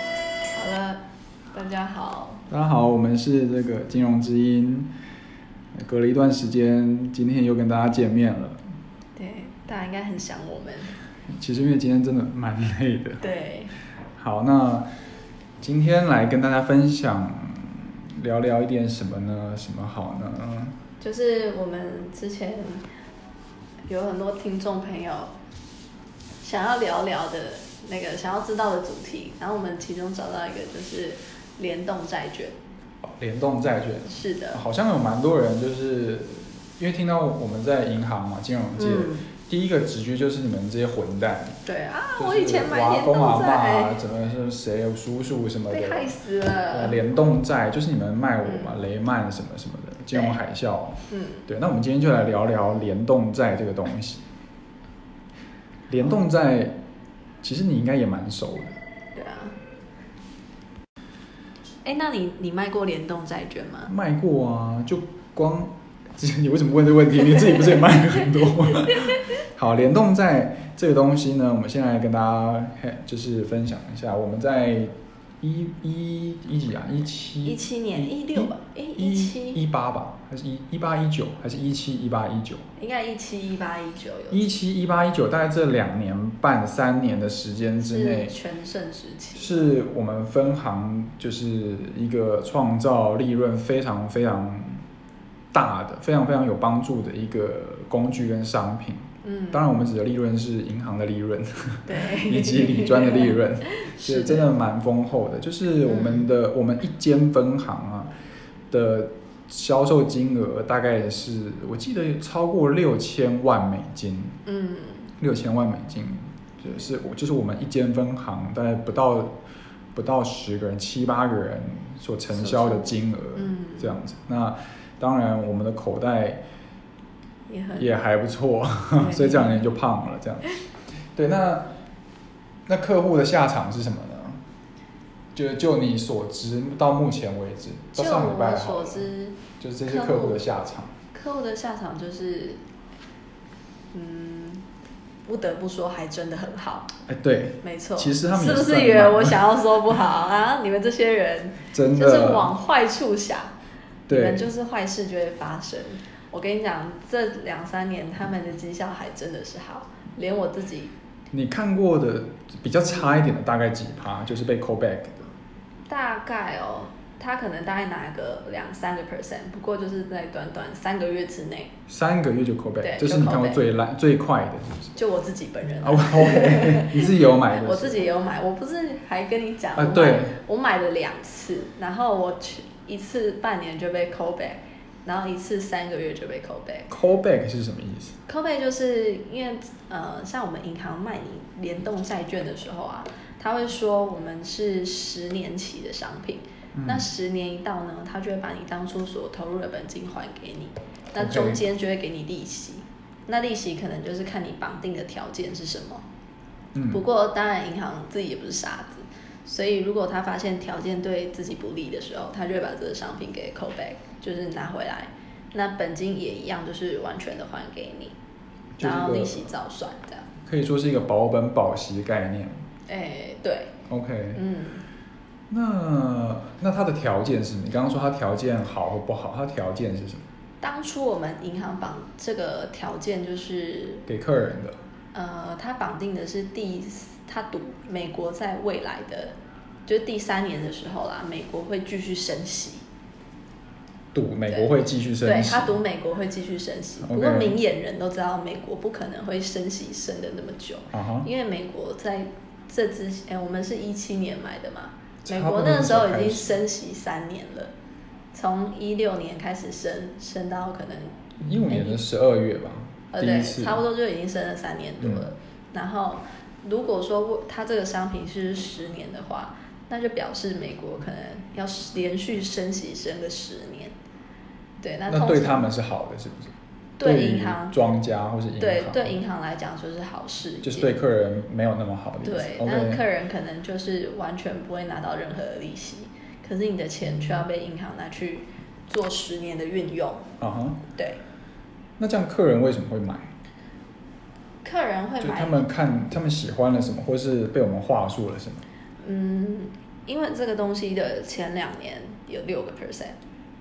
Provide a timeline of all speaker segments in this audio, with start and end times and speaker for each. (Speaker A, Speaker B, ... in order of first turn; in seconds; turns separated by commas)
Speaker A: 0.5-2.5, Speaker B: 2.5-4.9, Speaker B: 5.8-8.6, Speaker A: 9.2-10.9, Speaker B: 11.3-13.2, Speaker A: 13.2-13.7, Speaker B: 14.2-14.9, Speaker B: 15.6-20.8, Speaker A: 21.0-22.9, Speaker A: 23.9-25.3, Speaker A: 26.4-32.5, Speaker B: 33.0-41.6, Speaker A: 34.1-34.6, Speaker A: 38.8-39.3, Speaker A: 41.6-44.0, Speaker B: 42.1-46.1, Speaker A: 45.7-47.0, Speaker B: 46.7-54.2, Speaker A: 48.4-48.8, Speaker A: 51.1-51.5, Speaker B: 55.9-56.8, Speaker B: 57.4-58.8, Speaker A: 59.1-59.6, Speaker A: 61.8-63.9, Speaker B: 63.9-82.6, Speaker A: 77.4-79.6, Speaker A: 82.8-84.4, Speaker B: 84.3-88.3, Speaker A: 87.8-89.7, Speaker B: 89.3-94.8, Speaker B: 95.5-108.1, Speaker A: 99.2-99.7, Speaker A: 101.8-104.5, Speaker A: 105.8-106.2, Speaker B: 108.7-114.4, Speaker A: 114.4-115.1, Speaker B: 115.2-119.3, Speaker B: 119.9-126.4, Speaker A: 122.3-124.0, Speaker A: 127.5-127.9, Speaker B: 127.8-130.6, Speaker A: 128.9-129.7, Speaker B: 131.1-131.7, Speaker B: 132.7-134.4, Speaker B: 135.3-139.1, Speaker A: 137.9-140.4, Speaker B: 139.6-140.9, Speaker A: 141.1-142.6, Speaker A: 143.9-144.6, Speaker A: 145.2-146.9, Speaker B: 147.1-149.5, Speaker A: 147.6-153.5, Speaker B: 151.7-152.5, Speaker B: 154.1-154.5, Speaker A: 154.1-160.9, Speaker B: 161.3-165.3, Speaker A: 165.9-171.7, Speaker B: 171.9-174.9, Speaker A: 172.8-173.6, Speaker A: 174.9-186.9, Speaker B: 175.8-178.0, Speaker B: 179.8-180.4, Speaker B: 186.9-188.2, Speaker A: 188.3-206.0, Speaker B: 196.7-197.1, Speaker B: 201.2-201.6, Speaker B: 206.7-207.0, Speaker A: 206.9-218.2, Speaker B: 218.8-219.5, Speaker A: 218.8-220.3, Speaker B: 220.4-222.6, Speaker A: 222.9-223.8, Speaker B: 223.9-224.4, Speaker A: 224.3-224.8, Speaker B: 225.5-230.2, Speaker A: 230.6-234.1, Speaker B: 234.1-234.8, Speaker A: 235.1-239.3, Speaker A: 239.8-242.8, Speaker B: 244.1-245.8, Speaker A: 244.5-257.7, Speaker B: 247.0-247.6, Speaker B: 250.9-251.3, Speaker B: 255.2-256.6, Speaker A: 258.3-262.0, Speaker B: 261.4-263.8, Speaker A: 263.1-273.9, Speaker B: 265.0-265.2, Speaker A: 274.8-275.7, Speaker B: 275.1-279.1, Speaker A: 277.0-277.8, Speaker A: 278.6-280.9, Speaker B: 280.6-283.0, Speaker A: 282.2-290.3, Speaker B: 290.4-290.8, Speaker A: 290.9-291.2, Speaker B: 292.0-293.3, Speaker A: 294.6-295.6, Speaker B: 295.2-298.6, Speaker A: 299.0-303.2